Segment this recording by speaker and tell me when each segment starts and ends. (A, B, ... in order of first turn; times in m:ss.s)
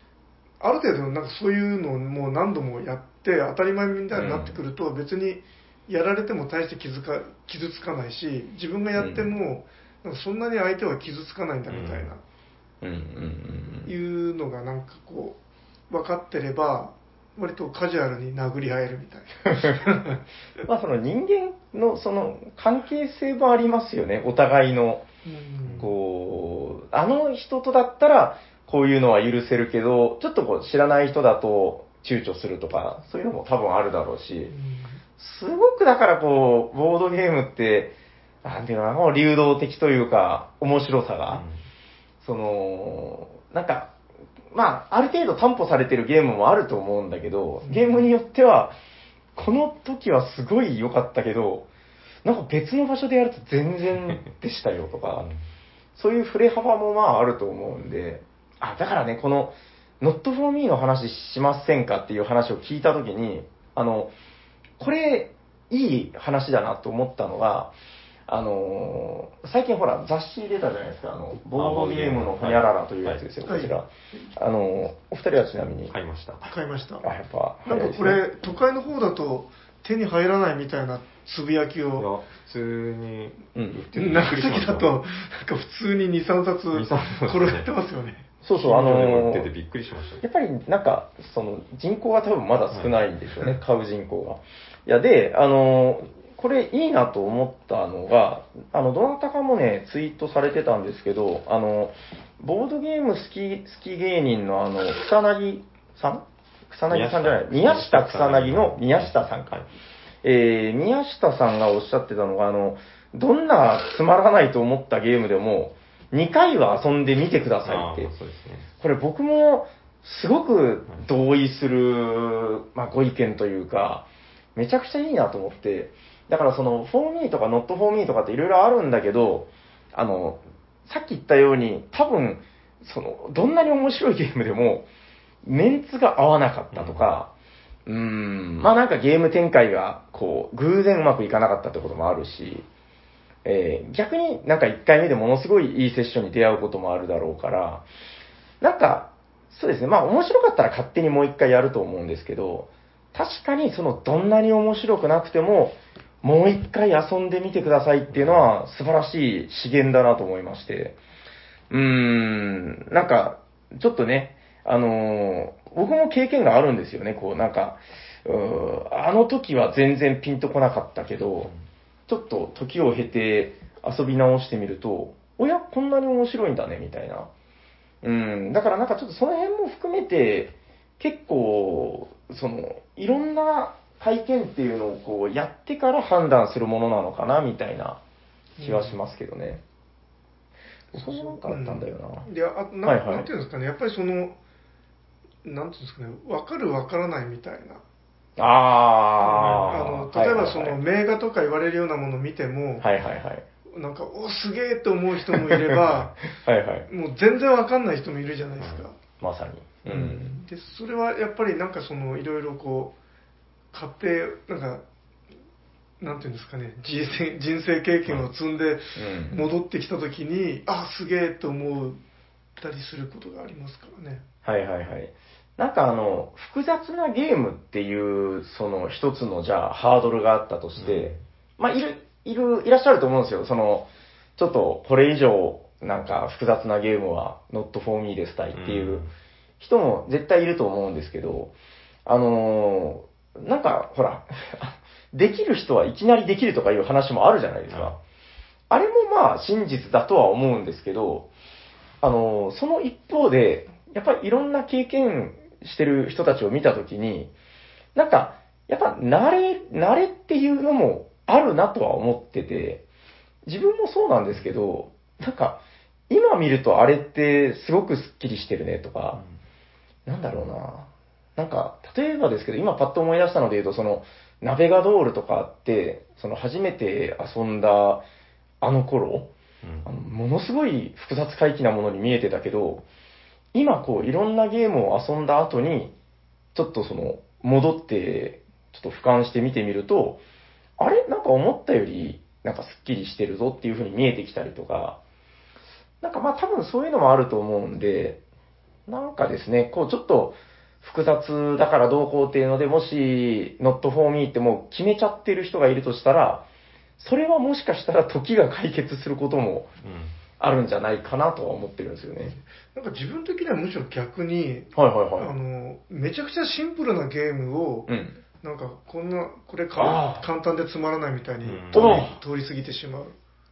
0:00.6-0:12.2 A
0:04.1-0:04.6 B
0:09.0-0:09.3 B
0:11.7-0:12.1 C
0:12.8-0:13.9 B
0:13.8-0:15.4 A
0:15.9-0:20.2 A
0:20.6-0:25.0 B
0:25.2-0:25.9 A
0:25.6-0:25.9 C
0:25.8-0:34.5 B
0:34.5-0:35.0 A
0:35.2-0:37.9 B
0:38.4-0:41.4 B
0:41.3-0:41.6 C
0:42.2-0:43.9 B
0:44.5-0:48.8 B
0:47.6-0:48.0 A
0:49.4-0:51.7 B
0:52.2-0:55.2 B
0:55.2-0:55.4 C
0:55.9-1:04.1 B
1:04.8-1:07.7 B
1:08.3-1:15.9 B
1:11.4-1:13.2 C
1:13.4-1:13.8 A
1:15.9-1:16.5 C
1:16.4-1:17.0 A
1:17.0-1:18.2 B
1:17.6-1:22.1 A
1:22.0-1:24.9 C
1:23.5-1:23.8 B
1:23.9-1:28.3 A
1:26.7-1:27.7 C
1:28.4-1:29.5 B
1:28.6-1:30.2 C
1:30.2-1:49.6 B
1:32.7-1:33.5 C
1:46.9-1:49.7 C
1:50.2-1:58.1 B
1:57.6-1:58.7 C
1:58.8-2:14.9 B
2:15.4-2:17.3 B
2:16.7-2:17.1 C
2:17.9-2:22.6 B
2:23.4-2:27.8 B
2:28.6-2:41.0 B
2:38.1-2:38.5 C
2:41.7-2:51.5 B
2:52.1-2:57.3 B
2:58.0-3:08.0 B
3:08.6-3:09.0 A
3:08.6-3:09.6 B
3:10.9-3:12.3 B
3:10.9-3:14.4 A
3:12.8-3:13.3 B
3:15.4-3:17.8 A
3:18.4-3:20.8 B
3:19.2-3:22.9 A
3:22.8-3:23.4 B
3:23.7-3:26.2 A
3:25.3-3:26.9 B
3:26.9-3:29.0 A
3:28.6-3:28.8 C
3:29.2-3:30.4 B
3:29.9-3:32.9 A
3:33.7-3:34.8 A
3:36.0-3:42.0 A
3:39.0-3:39.4 B
3:42.6-3:44.2 A
3:44.4-3:59.0 B
3:50.8-3:51.2 C
3:58.5-3:59.1 C
3:59.6-4:01.5 B
4:02.0-4:07.9 B
4:07.7-4:08.0 C
4:08.7-4:11.3 B
4:12.0-4:17.3 B
4:17.9-4:22.8 B
4:23.4-4:29.2 B
4:30.0-4:38.0 B
4:38.6-4:39.3 B
4:39.6-4:39.9 C
4:39.8-4:42.8 B
4:43.5-4:45.9 B
4:46.5-4:50.2 B
4:50.8-4:55.0 B
4:56.0-4:58.2 B
4:58.9-5:06.4 B
5:07.0-5:09.7 B
5:09.8-5:10.2 C
5:10.4-5:12.4 B
5:12.7-5:23.1 A
5:14.8-5:15.3 B
5:17.9-5:18.2 B
5:19.8-5:20.2 B
5:21.4-5:22.1 C
5:21.7-5:22.1 B